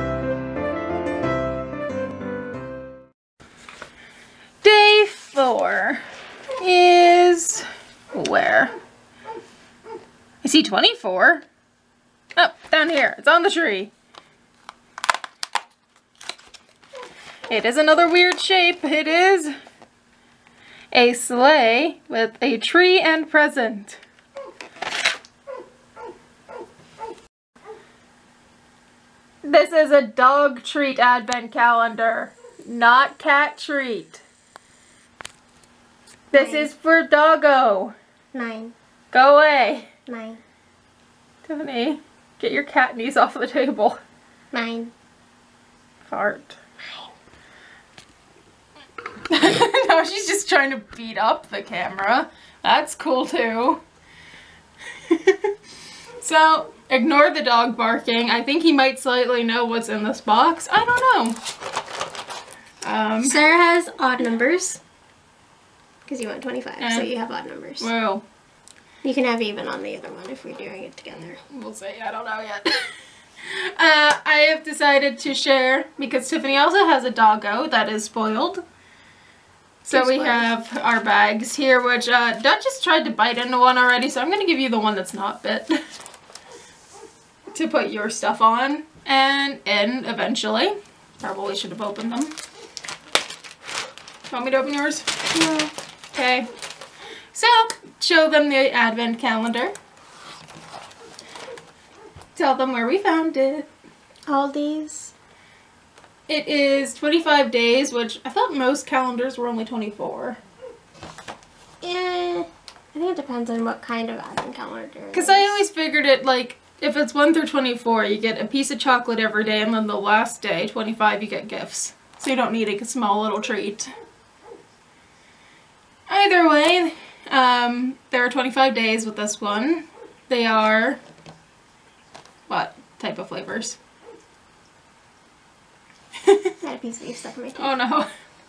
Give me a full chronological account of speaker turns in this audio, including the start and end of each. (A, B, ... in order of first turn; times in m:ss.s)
0:04.6-0:06.0 A
0:06.6-0:08.7 A
0:10.4-0:11.4 A
0:12.4-0:13.9 A
0:17.5-0:19.5 A
0:20.9-0:24.0 A
0:29.4-0:34.2 A
0:36.3-0:37.9 A
0:36.3-0:36.7 B
0:38.3-0:38.7 B
0:39.1-0:39.9 A
0:40.1-0:40.4 B
0:41.4-0:44.0 A
0:44.5-0:44.9 B
0:46.0-0:46.6 A
0:49.3-0:53.8 A
0:55.1-0:55.5 A
0:56.2-1:01.4 A
1:02.8-1:03.4 A
1:03.2-1:04.8 B
1:06.0-1:07.9 B
1:06.8-1:07.1 A
1:07.8-1:08.2 A
1:09.0-1:11.4 B
1:11.5-1:12.8 A
1:13.4-1:18.6 A
1:19.8-1:25.8 A
1:19.9-1:20.4 B
1:27.5-1:32.4 A
1:34.3-1:35.1 A
1:35.3-1:35.7 B
1:36.1-1:36.5 A
1:37.3-1:39.7 A
1:42.3-1:43.7 A
1:44.3-1:45.1 B
1:46.3-1:50.4 A
1:51.8-1:55.6 B
1:55.1-2:03.9 A
2:06.1-2:11.0 A
2:12.5-2:13.8 A
2:16.2-2:16.5 A
2:16.6-2:17.7 B
2:17.6-2:18.1 A